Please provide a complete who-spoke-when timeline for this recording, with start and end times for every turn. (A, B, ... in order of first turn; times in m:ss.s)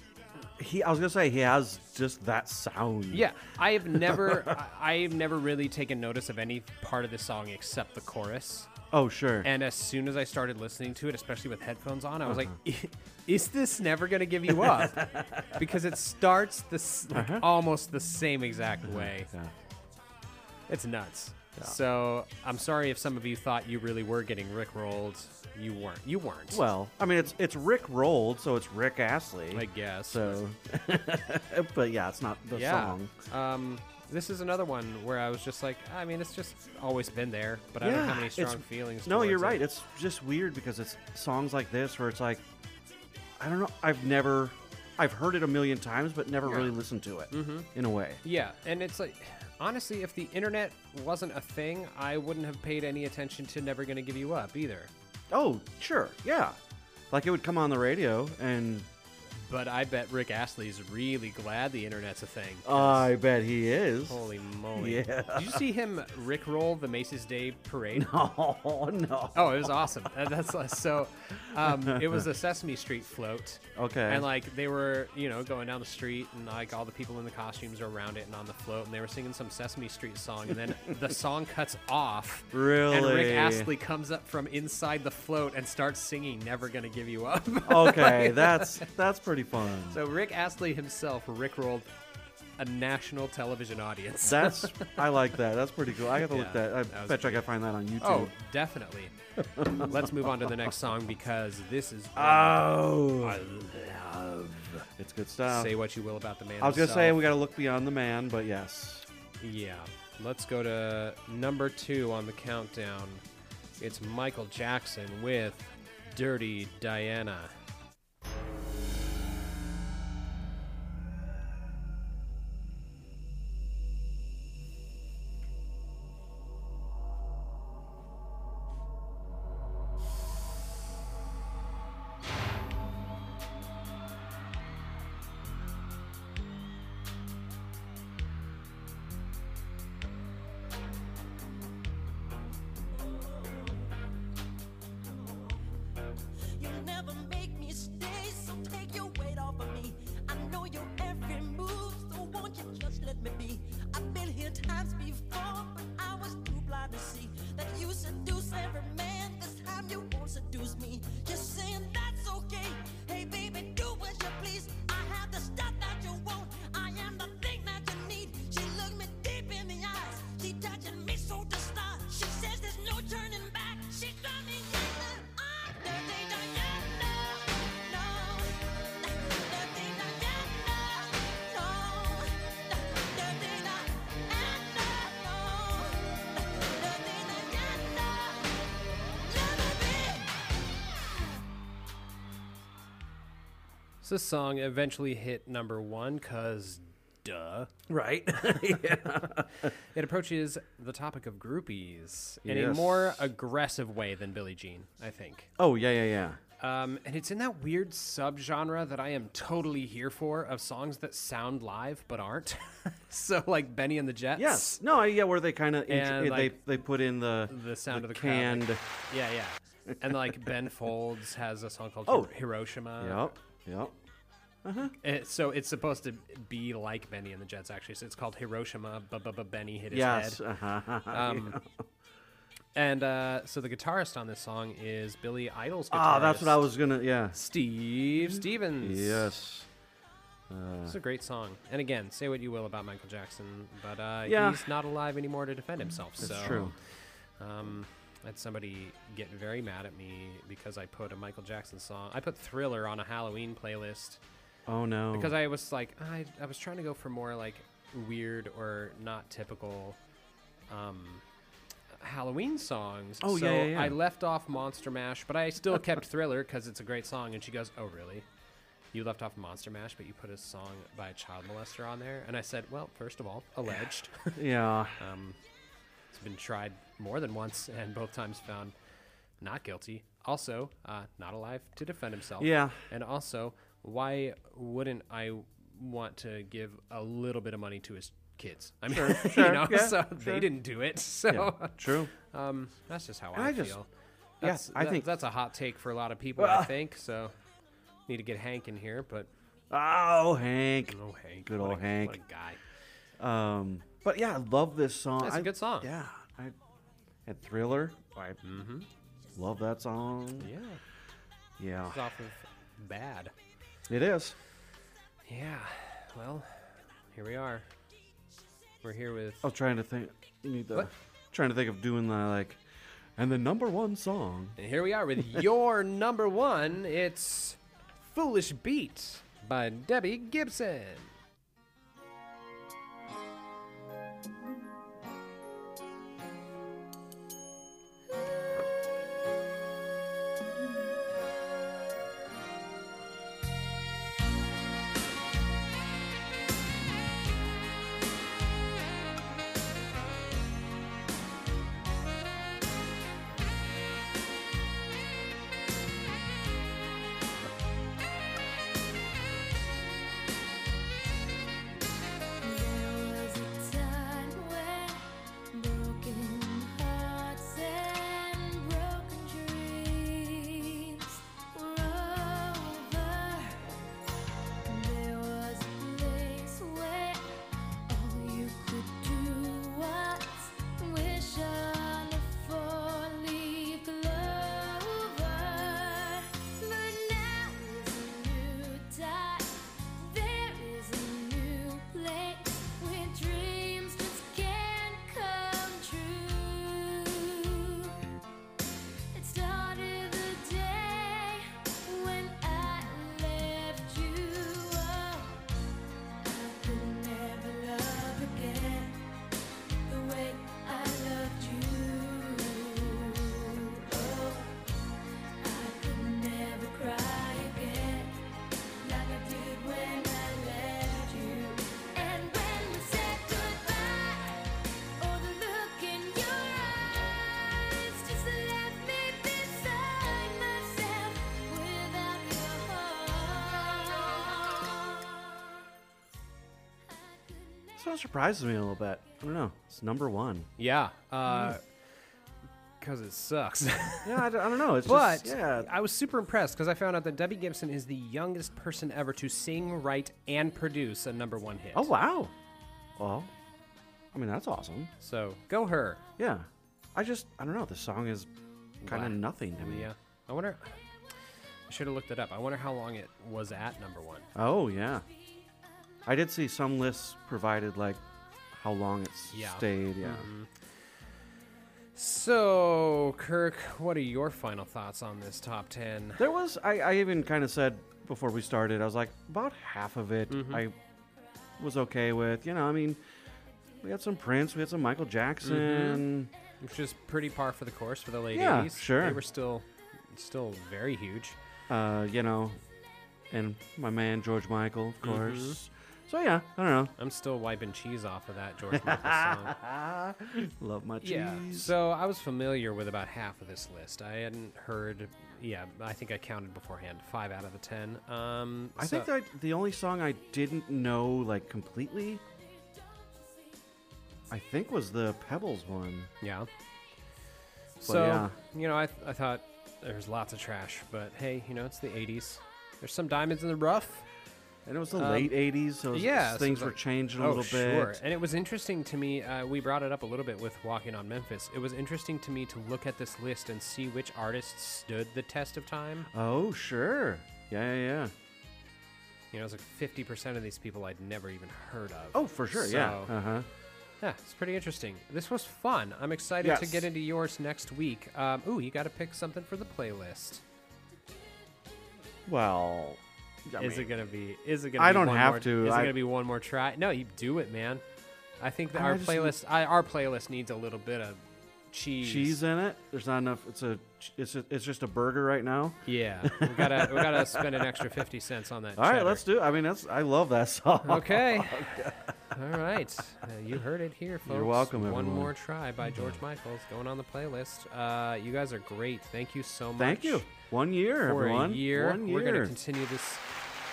0:00.6-0:03.3 A
0:03.1-0:08.7 B
0:03.9-0:04.5 A
0:08.9-0:09.5 A
0:09.4-0:19.3 B
0:12.3-0:12.5 A
0:14.5-0:15.6 A
0:17.1-0:17.5 A
0:18.8-0:19.5 A
0:20.7-0:26.6 B
0:26.5-0:33.1 A
0:29.5-0:30.4 B
0:32.5-0:39.6 B
0:37.8-0:42.4 A
0:43.4-0:48.2 A
0:46.4-0:46.7 B
0:47.3-0:47.7 B
0:48.2-0:54.9 B
0:55.3-0:56.6 A
0:57.1-0:58.9 A
0:59.4-1:03.1 B
1:02.6-1:05.6 A
1:04.1-1:08.1 B
1:07.9-1:10.1 A
1:09.3-1:28.8 B
1:11.5-1:12.2 A
1:13.7-1:14.3 A
1:22.5-1:23.7 A
1:27.6-1:30.0 A
1:29.9-1:31.9 B
1:32.6-1:35.1 B
1:34.2-1:38.3 A
1:36.2-1:37.4 B
1:38.0-1:43.5 B
1:39.4-1:40.6 A
1:42.1-1:45.7 A
1:45.5-1:47.2 B
1:46.6-1:49.1 A
1:49.4-1:53.2 B
1:53.8-1:57.5 B
2:26.6-2:27.2 C
2:27.8-2:29.0 C
2:30.3-2:32.1 C
2:32.7-2:33.8 C
2:35.2-2:36.0 C
2:38.2-2:38.9 C
2:41.8-2:42.1 C
2:42.6-2:58.6 C
2:59.2-3:08.4 C
3:09.2-3:10.3 C
3:14.0-3:17.7 B
3:17.9-3:19.7 A
3:18.5-3:18.8 B
3:19.6-3:25.5 B
3:22.4-3:23.3 A
3:25.6-3:26.4 A
3:26.6-3:34.8 B
3:34.4-3:38.8 A
3:35.9-3:36.6 B
3:37.5-3:43.3 B
3:43.0-3:44.0 A
3:44.6-3:44.9 A
3:45.0-3:50.4 B
3:49.9-3:51.8 A
3:51.1-3:51.6 B
3:52.7-3:56.6 B
3:55.9-3:57.4 A
3:57.3-3:59.3 B
3:58.1-3:59.7 A
4:00.5-4:01.0 A
4:00.8-4:06.7 B
4:04.2-4:04.7 A
4:06.2-4:06.7 A
4:07.4-4:14.2 B
4:14.7-4:15.3 A
4:15.1-4:20.0 B
4:20.7-4:21.2 B
4:22.0-4:28.3 B
4:23.2-4:24.0 A
4:28.9-4:34.4 B
4:34.4-4:35.0 A
4:35.0-4:35.4 B
4:36.1-4:38.7 B
4:39.4-4:53.9 B
4:42.4-4:42.8 A
4:48.9-4:50.5 A
4:51.3-4:52.1 A
4:53.3-4:53.8 A
4:54.4-4:57.3 B
4:54.4-4:55.1 A
4:56.4-4:56.7 A
4:58.1-4:59.3 B
4:59.7-5:02.2 A
5:00.9-5:02.6 B
5:03.2-5:06.5 A
5:05.2-5:05.9 B
5:07.2-5:08.4 A
5:08.4-5:08.9 B
5:09.3-5:10.5 A
5:10.4-5:10.8 B
5:11.6-5:12.0 A
5:11.9-5:13.3 B
5:13.9-5:14.4 A
5:15.3-5:17.7 B
5:18.8-5:19.4 B
5:19.4-5:22.6 A
5:23.2-5:24.6 A
5:24.6-5:31.1 B
6:02.4-6:13.8 C
6:14.6-6:17.4 C
6:17.9-6:38.0 C
6:39.1-6:45.4 C
6:46.2-6:49.0 C
6:49.9-6:54.6 C
6:55.4-6:58.2 C
6:58.8-7:15.1 C
7:17.8-7:20.5 A
7:20.6-7:21.6 B
7:21.3-7:21.5 A
7:22.8-7:24.3 B
7:24.0-7:25.7 A
7:24.8-7:31.9 B
7:31.7-7:32.3 A
7:33.0-7:33.3 A
7:34.1-7:34.9 A
7:35.0-7:36.0 B
7:36.2-7:38.3 A
7:38.8-7:39.9 A
7:38.8-7:40.7 B
7:41.7-7:44.3 B
7:44.3-7:45.1 A
7:46.0-7:50.3 A
7:49.3-7:50.5 B
7:52.0-7:56.2 B
7:56.2-8:00.8 A
8:00.3-8:00.6 B
8:01.6-8:03.0 A
8:03.8-8:06.3 A
8:05.4-8:06.0 B
8:06.6-8:11.4 B
8:08.3-8:09.2 A
8:11.7-8:12.6 A
8:13.3-8:16.9 A
8:15.0-8:15.6 B
8:17.0-8:19.6 B
8:18.7-8:21.7 A
8:21.0-8:29.1 B
8:28.8-8:32.2 A
8:34.3-8:36.1 A
8:36.2-8:36.5 B
8:37.8-8:44.1 B
8:37.8-8:38.3 A
8:44.6-8:48.0 A
8:45.0-8:45.3 B
8:45.9-8:56.1 B
8:56.1-8:58.1 A
8:59.3-9:03.1 B
9:02.1-9:03.5 A
9:04.0-9:10.4 B
9:06.4-9:06.9 A
9:12.2-9:13.9 A
9:13.6-9:17.8 B
9:14.8-9:16.0 A
9:18.4-9:22.4 B
9:18.7-9:19.3 A
9:22.0-9:27.8 A
9:25.8-9:29.2 B
9:28.8-9:32.1 A
9:30.8-9:40.3 B
9:34.2-9:35.3 A
9:35.9-9:36.2 A
9:39.8-9:42.6 A
9:41.0-9:43.3 B